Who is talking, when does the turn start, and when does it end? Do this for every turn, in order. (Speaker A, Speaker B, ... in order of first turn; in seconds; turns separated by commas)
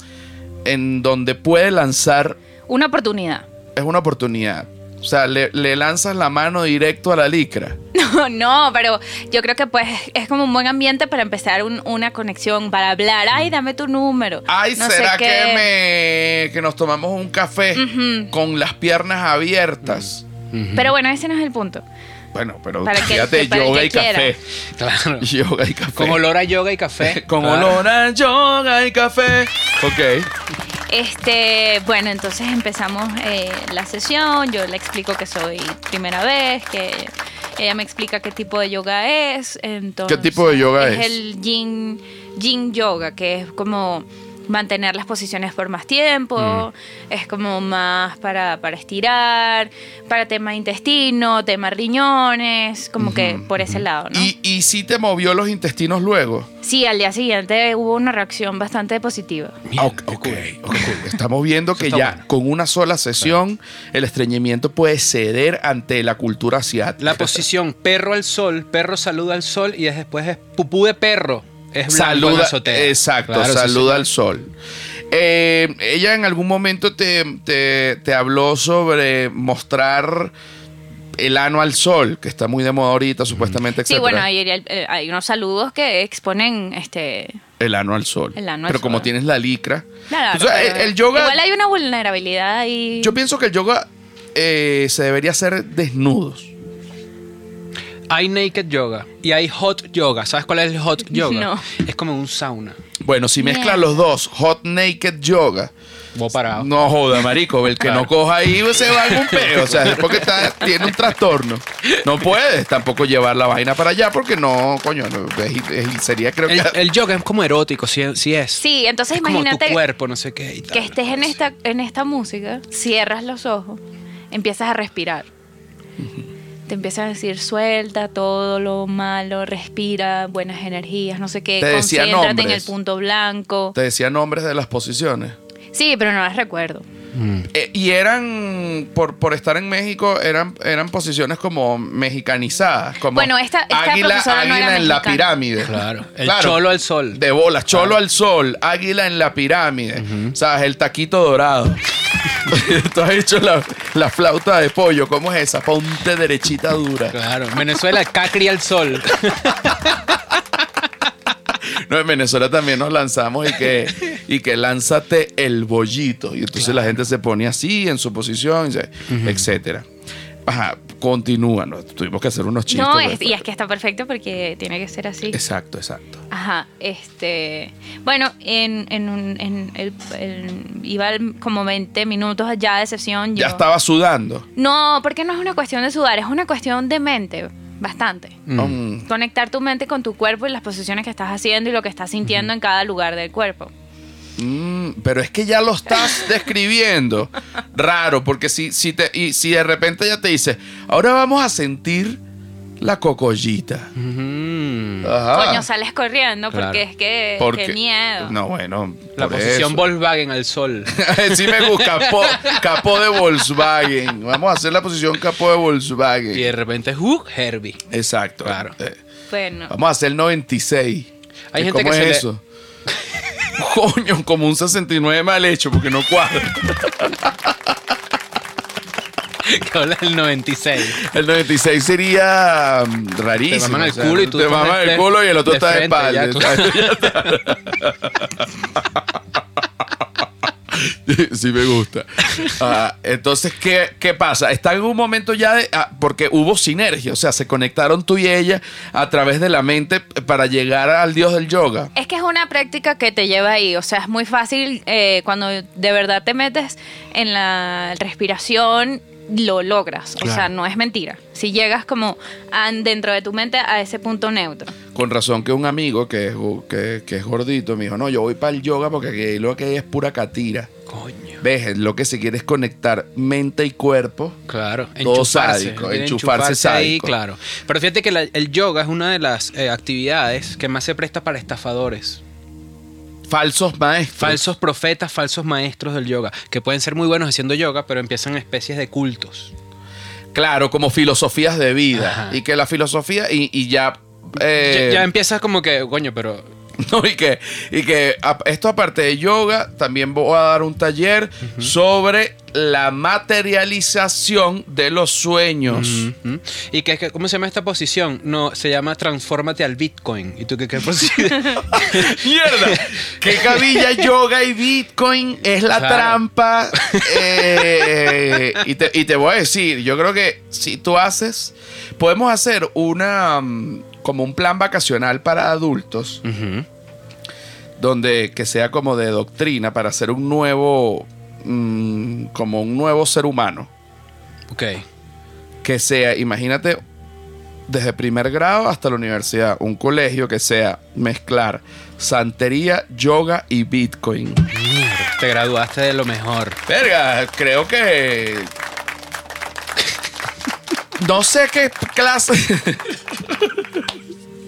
Speaker A: 0.6-2.4, Speaker B: 2.7-3.5, Speaker A: 3.7-7.8, Speaker B: 7.9-15.7, Speaker A: 14.5-20.2, Speaker B: 17.7-18.3, Speaker C: 19.9-20.9, Speaker B: 20.7-21.8, Speaker A: 22.3-24.4, Speaker B: 22.8-24.3, Speaker C: 24.7-25.3, Speaker A: 25.2-26.2, Speaker C: 25.9-27.8, Speaker A: 27.0-30.3, Speaker B: 30.9-54.3, Speaker A: 40.1-41.2, Speaker C: 46.4-46.6, Speaker A: 53.0-53.5, Speaker C: 53.6-53.8, Speaker A: 54.1-56.5, Speaker B: 56.6-59.6, Speaker C: 59.6-61.1, Speaker A: 59.8-67.4, Speaker C: 61.8-62.2, Speaker C: 67.0-74.1, Speaker A: 71.9-74.5, Speaker A: 75.1-80.3, Speaker A: 81.2-84.3, Speaker B: 83.8-87.4, Speaker A: 87.6-91.4, Speaker B: 88.3-89.1, Speaker B: 90.1-93.2, Speaker A: 93.0-96.5, Speaker C: 98.1-102.8, Speaker B: 101.1-101.7, Speaker A: 103.0-105.7, Speaker B: 103.4-104.0, Speaker C: 106.1-106.7, Speaker A: 106.4-116.8, Speaker C: 107.8-108.1, Speaker C: 108.9-111.0, Speaker C: 116.5-121.4, Speaker B: 118.6-119.8, Speaker B: 120.7-125.3, Speaker A: 126.0-126.2, Speaker B: 126.7-133.7, Speaker A: 131.6-132.7, Speaker A: 133.7-135.3, Speaker B: 135.7-136.8, Speaker C: 137.1-137.5, Speaker A: 137.5-151.8, Speaker B: 143.1-145.3, Speaker C: 145.6-147.2, Speaker C: 150.0-150.3, Speaker A: 152.4-157.2, Speaker C: 157.1-160.2, Speaker A: 161.5-169.8, Speaker C: 166.6-166.9, Speaker C: 169.1-169.5, Speaker A: 170.4-173.4, Speaker B: 172.7-175.4, Speaker A: 175.3-176.2, Speaker B: 176.3-183.6, Speaker A: 183.3-184.4, Speaker B: 184.6-188.4, Speaker C: 188.4-188.8, Speaker A: 188.6-189.1, Speaker B: 189.1-193.7, Speaker A: 194.4-202.2, Speaker A: 202.8-203.9, Speaker C: 203.9-205.1, Speaker A: 205.0-205.7, Speaker B: 205.3-208.3, Speaker C: 206.5-206.8, Speaker A: 207.4-209.9, Speaker C: 209.2-213.2, Speaker A: 210.9-216.5, Speaker C: 216.3-217.8, Speaker A: 217.9-219.0, Speaker C: 218.4-218.7, Speaker B: 219.3-219.7, Speaker A: 219.7-222.4, Speaker C: 221.5-222.2, Speaker A: 223.6-227.8, Speaker C: 229.4-231.0, Speaker A: 230.9-251.9, Speaker C: 233.5-237.4, Speaker B: 251.9-264.7, Speaker C: 260.2-260.5, Speaker A: 264.9-270.7, Speaker C: 270.9-271.4, Speaker A: 271.4-274.4, Speaker C: 274.5-282.2, Speaker A: 275.0-277.1, Speaker A: 283.3-284.4, Speaker C: 284.2-289.5, Speaker A: 290.3-295.1, Speaker C: 291.9-292.4, Speaker C: 294.6-296.5, Speaker A: 296.8-306.1, Speaker C: 305.7-313.8, Speaker A: 311.6-326.2, Speaker C: 315.7-316.2, Speaker C: 316.7-318.5, Speaker C: 326.2-326.6, Speaker A: 327.8-333.7, Speaker C: 334.5-334.8, Speaker A: 335.6-336.8, Speaker A: 337.7-344.5, Speaker C: 344.5-346.6, Speaker A: 346.7-348.5, Speaker A: 351.0-353.7